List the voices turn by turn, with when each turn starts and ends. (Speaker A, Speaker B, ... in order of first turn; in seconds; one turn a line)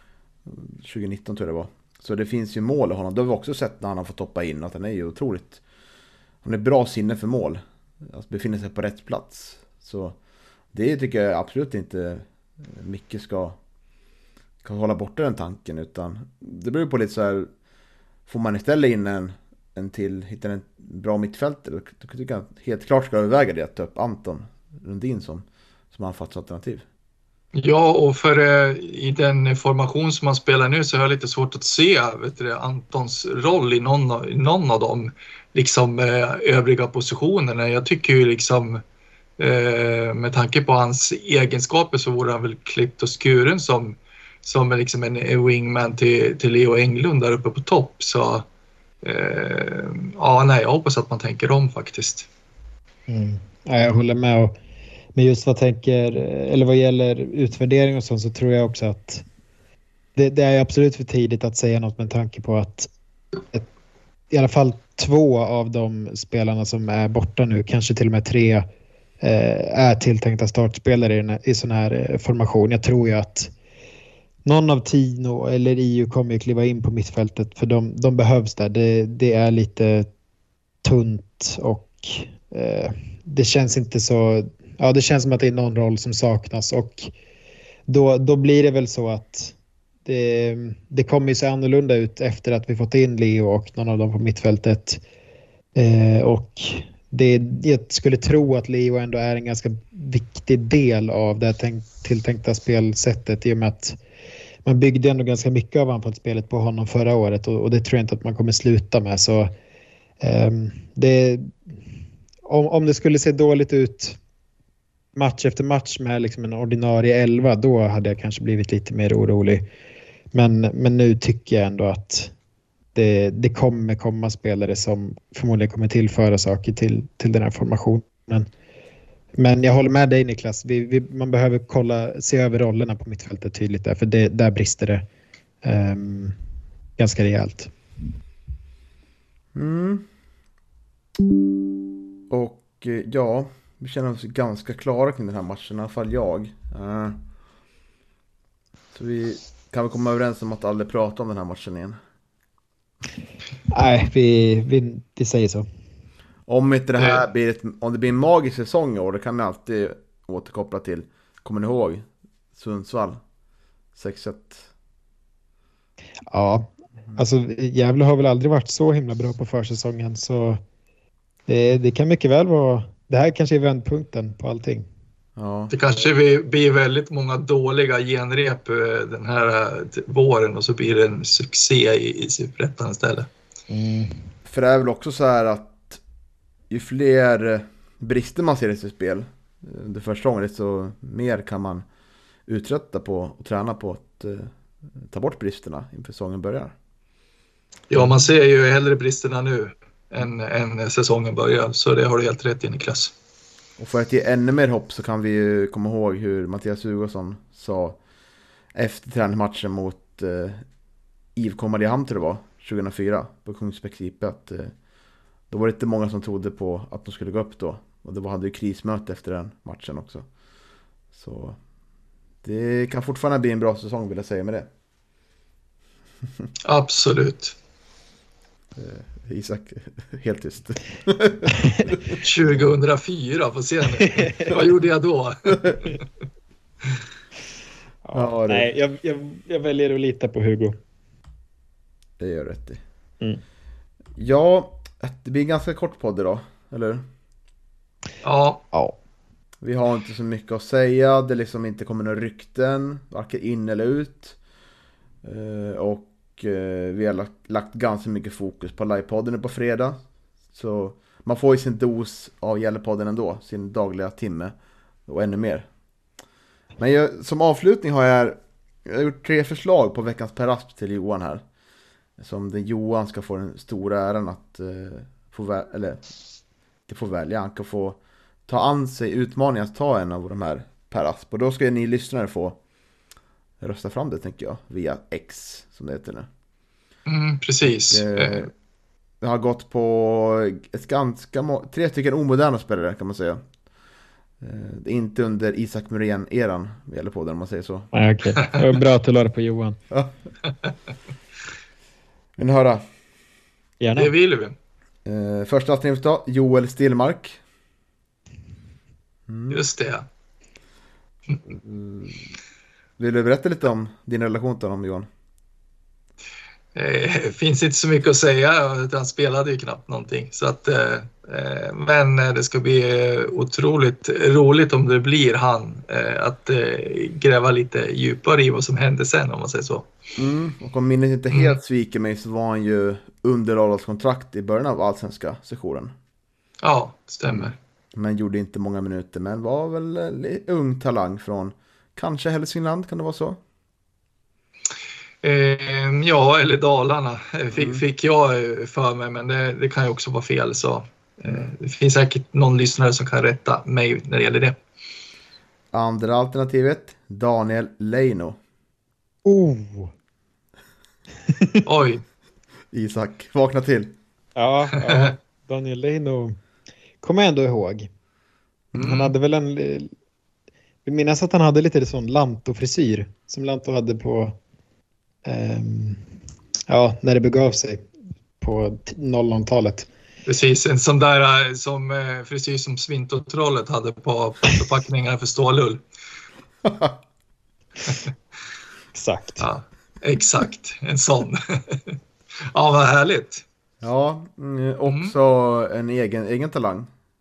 Speaker A: 0.5-5.6
Speaker A: 6.4-10.2
Speaker A: 10.7-13.6
Speaker A: 14.6-17.5
Speaker A: 18.3-26.9
Speaker B: 27.5-38.8
Speaker B: 39.4-48.5
Speaker B: 49.0-52.3
Speaker C: 53.1-54.6
Speaker C: 55.1-59.2
Speaker C: 60.2-62.9
Speaker C: 64.3-68.7
Speaker C: 69.2-73.5
Speaker C: 74.5-80.1
Speaker C: 80.8-87.1
Speaker C: 87.9-95.0
Speaker C: 95.8-104.0
Speaker C: 104.7-109.5
Speaker C: 110.2-111.5
Speaker C: 112.5-114.2
Speaker C: 115.2-119.7
Speaker C: 120.3-122.3
Speaker C: 123.0-128.5
Speaker C: 129.4-135.1
Speaker C: 135.6-136.4
Speaker C: 137.0-137.7
Speaker A: 139.5-140.1
Speaker A: 142.3-147.2
Speaker A: 148.9-152.0
Speaker C: 153.7-155.7
Speaker A: 156.5-163.2
Speaker A: 164.0-164.7
Speaker C: 166.3-170.6
Speaker C: 171.5-174.9
Speaker A: 175.4-175.8
Speaker B: 175.7-183.3
Speaker C: 183.7-184.3
Speaker A: 184.5-186.0
Speaker A: 186.7-191.8
Speaker A: 192.5-196.8
Speaker B: 197.9-203.1
Speaker A: 203.8-208.0
Speaker A: 208.7-210.6
Speaker A: 211.4-214.7
Speaker A: 215.5-220.2
Speaker A: 221.1-221.6
Speaker A: 222.4-224.7
Speaker B: 226.6-227.6
Speaker A: 228.8-232.2
Speaker B: 232.2-236.0
Speaker C: 238.1-240.8
Speaker A: 238.1-238.7
Speaker A: 242.2-242.8
Speaker A: 244.2-247.1
Speaker B: 248.2-248.6
Speaker A: 249.6-254.4
Speaker A: 255.2-260.0
Speaker A: 260.5-264.5
Speaker A: 265.1-265.7
Speaker A: 266.8-271.4
Speaker A: 272.2-276.0
Speaker A: 276.9-282.6
Speaker A: 283.6-286.3
Speaker B: 287.1-288.5
Speaker A: 287.8-288.5
Speaker A: 289.2-293.4
Speaker A: 294.4-297.9
Speaker C: 297.9-299.8
Speaker A: 299.9-300.3
Speaker A: 302.4-302.8
Speaker C: 303.8-304.1
Speaker B: 304.0-304.6
Speaker A: 305.1-307.4
Speaker A: 309.3-309.6
Speaker B: 309.5-310.1
Speaker A: 311.4-312.3
Speaker A: 313.0-315.1
Speaker B: 316.8-329.9
Speaker A: 330.2-335.9
Speaker B: 331.3-331.6
Speaker B: 336.6-337.6
Speaker A: 337.3-343.4
Speaker B: 345.2-354.6
Speaker A: 347.5-347.8
Speaker A: 355.7-358.4
Speaker C: 359.2-359.9
Speaker B: 361.6-362.0
Speaker A: 362.7-364.0
Speaker C: 364.4-366.4
Speaker C: 367.0-367.9
Speaker B: 368.8-369.1
Speaker C: 368.8-369.9
Speaker C: 370.9-374.4
Speaker C: 375.2-376.1
Speaker C: 376.7-377.9
Speaker C: 378.4-379.9
Speaker B: 380.3-385.8
Speaker A: 386.6-387.0
Speaker C: 388.9-389.4
Speaker B: 389.4-392.0
Speaker B: 392.5-393.4
Speaker A: 393.8-396.9
Speaker B: 394.9-395.1